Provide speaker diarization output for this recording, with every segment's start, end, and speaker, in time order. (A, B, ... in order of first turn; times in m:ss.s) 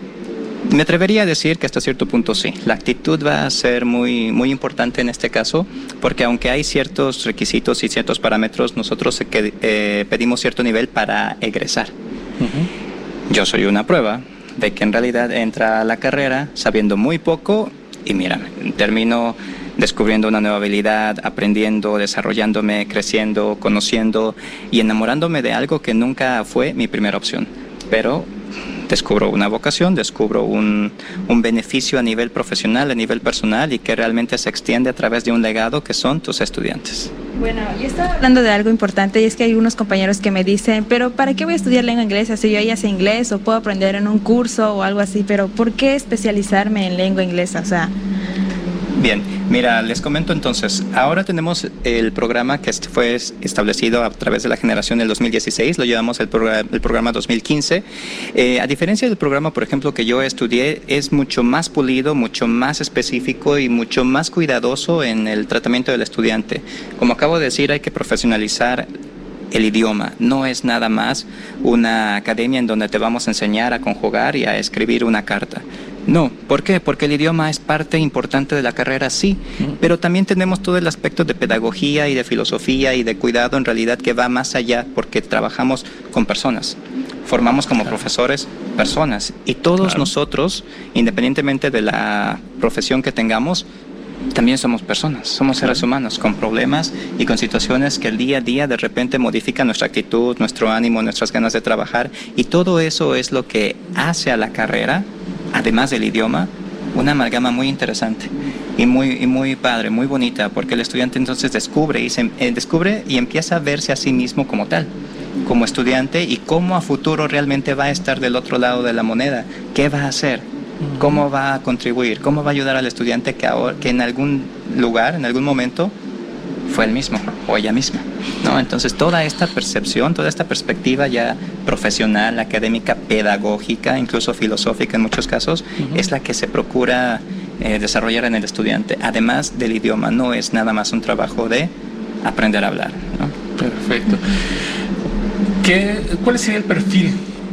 0:00.7-0:11.9 A
0:12.4-0:12.7 B
0:13.3-0:28.3 A
0:28.9-0:37.1 A
0:37.4-0:47.9 C
0:49.0-1:08.9 A
1:09.5-1:33.7 A
1:34.3-1:54.9 A
1:55.4-2:00.5 A
2:01.0-2:05.9 A
2:06.7-2:23.3 A
2:23.6-2:24.3 B
2:25.6-2:27.2 B